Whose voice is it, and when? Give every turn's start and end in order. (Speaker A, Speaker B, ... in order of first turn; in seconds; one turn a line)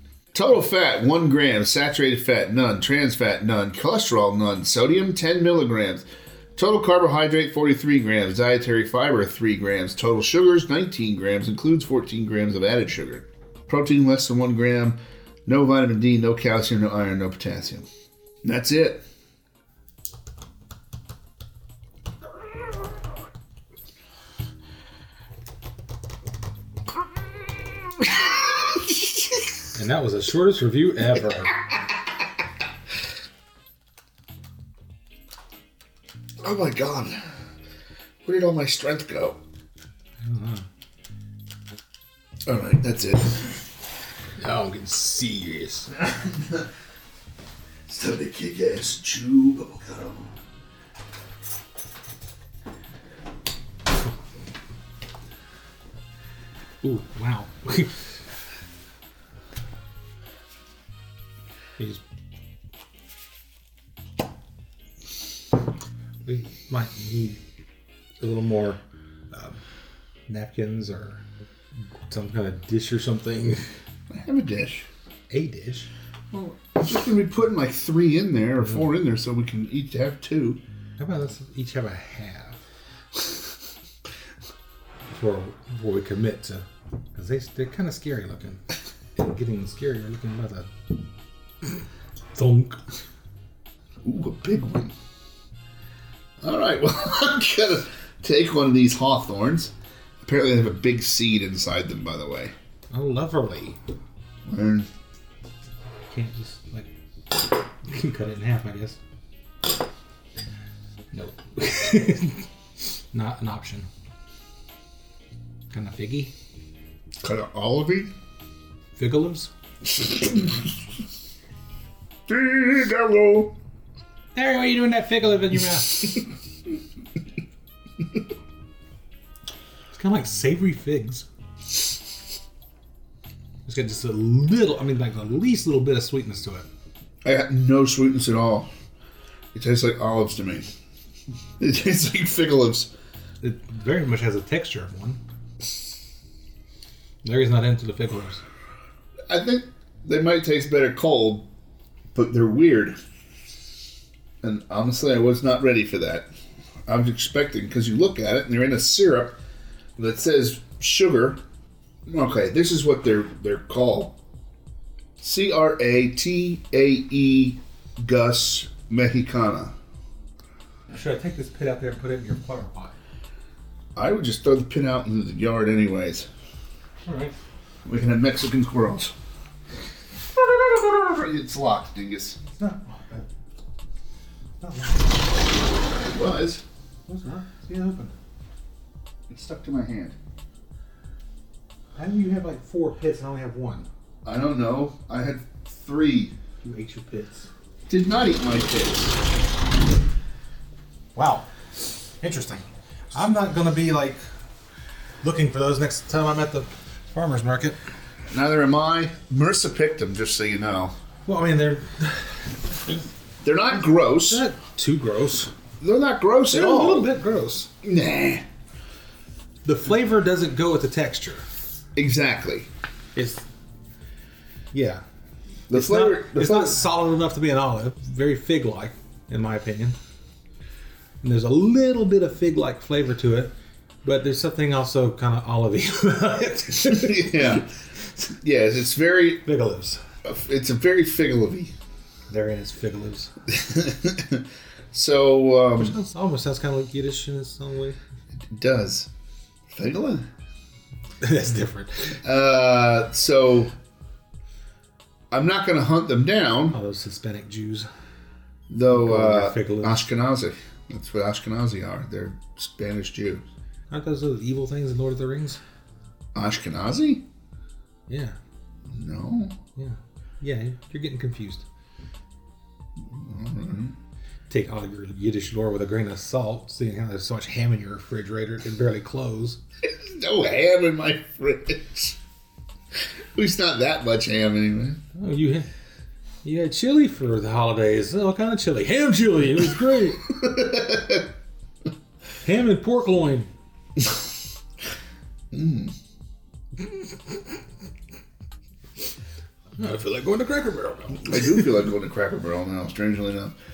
Speaker A: 0.3-17.9
Speaker A: 18.4-19.0
Speaker A: 28.0-28.9
Speaker B: 29.7-31.6
Speaker A: 36.4-37.2
Speaker A: 38.2-39.4
Speaker B: 40.2-40.6
Speaker A: 42.5-43.6
Speaker B: 44.4-45.9
Speaker A: 46.2-46.6
Speaker A: 47.9-50.3
Speaker B: 56.8-58.0
Speaker B: 61.8-62.0
Speaker B: 66.2-67.4
Speaker B: 68.2-69.6
Speaker B: 70.3-71.2
Speaker B: 72.1-73.6
Speaker A: 74.1-74.8
Speaker B: 75.3-75.9
Speaker A: 76.3-80.6
Speaker B: 81.0-82.6
Speaker B: 85.1-88.6
Speaker B: 89.2-90.9
Speaker B: 92.3-92.8
Speaker A: 94.0-94.9
Speaker A: 96.4-102.5
Speaker B: 102.9-103.8
Speaker A: 104.5-104.9
Speaker B: 106.1-109.0
Speaker B: 111.1-113.9
Speaker B: 115.7-116.3
Speaker A: 117.2-118.1
Speaker B: 119.0-119.5
Speaker A: 120.0-120.5
Speaker A: 122.3-123.5
Speaker B: 124.3-126.2
Speaker B: 129.9-131.2
Speaker B: 133.7-136.7
Speaker A: 137.2-138.7
Speaker A: 139.5-140.7
Speaker A: 141.6-142.9
Speaker B: 143.4-145.2
Speaker B: 147.2-148.4
Speaker A: 149.3-151.5
Speaker A: 152.1-153.0
Speaker A: 154.4-156.3
Speaker A: 156.8-159.3
Speaker A: 160.0-161.4
Speaker A: 162.1-164.2
Speaker A: 165.2-169.7
Speaker B: 170.9-172.9
Speaker A: 173.9-176.3
Speaker B: 177.0-177.3
Speaker A: 177.8-179.1
Speaker A: 180.3-182.4
Speaker B: 182.4-183.3
Speaker B: 184.6-185.5
Speaker A: 186.1-186.6
Speaker B: 187.1-188.1
Speaker A: 189.3-190.2
Speaker B: 191.9-193.9
Speaker A: 194.2-196.3
Speaker B: 196.6-197.5
Speaker A: 197.9-199.2
Speaker B: 201.1-204.2
Speaker B: 205.2-207.8
Speaker A: 208.3-210.9
Speaker B: 211.2-213.0
Speaker A: 213.4-214.4
Speaker B: 214.3-215.5
Speaker A: 215.8-217.1
Speaker B: 216.5-217.7
Speaker A: 217.8-218.4
Speaker B: 219.6-221.4
Speaker A: 221.9-222.7
Speaker B: 223.1-223.4
Speaker B: 224.7-225.0
Speaker A: 225.7-226.8
Speaker B: 225.7-230.0
Speaker B: 231.2-233.5
Speaker B: 234.0-237.6
Speaker A: 236.9-239.4
Speaker B: 239.4-240.0
Speaker A: 240.2-241.7
Speaker B: 242.3-243.3
Speaker A: 243.5-245.9
Speaker B: 245.8-248.0
Speaker A: 248.5-249.1
Speaker A: 249.7-250.2
Speaker B: 251.2-252.2
Speaker A: 252.2-253.7
Speaker A: 255.3-256.8
Speaker B: 256.7-257.9
Speaker A: 258.7-263.4
Speaker B: 258.9-260.1
Speaker B: 263.9-265.6
Speaker A: 266.3-267.2
Speaker B: 268.1-268.4
Speaker A: 268.9-269.6
Speaker B: 269.8-271.6
Speaker A: 273.1-273.9
Speaker B: 274.5-279.6
Speaker A: 279.8-282.2
Speaker A: 283.3-285.0
Speaker B: 285.1-285.7
Speaker B: 286.4-290.2
Speaker A: 290.3-291.3
Speaker B: 292.4-293.5
Speaker A: 295.5-295.9
Speaker B: 296.9-297.3
Speaker B: 299.8-301.7
Speaker A: 301.2-303.5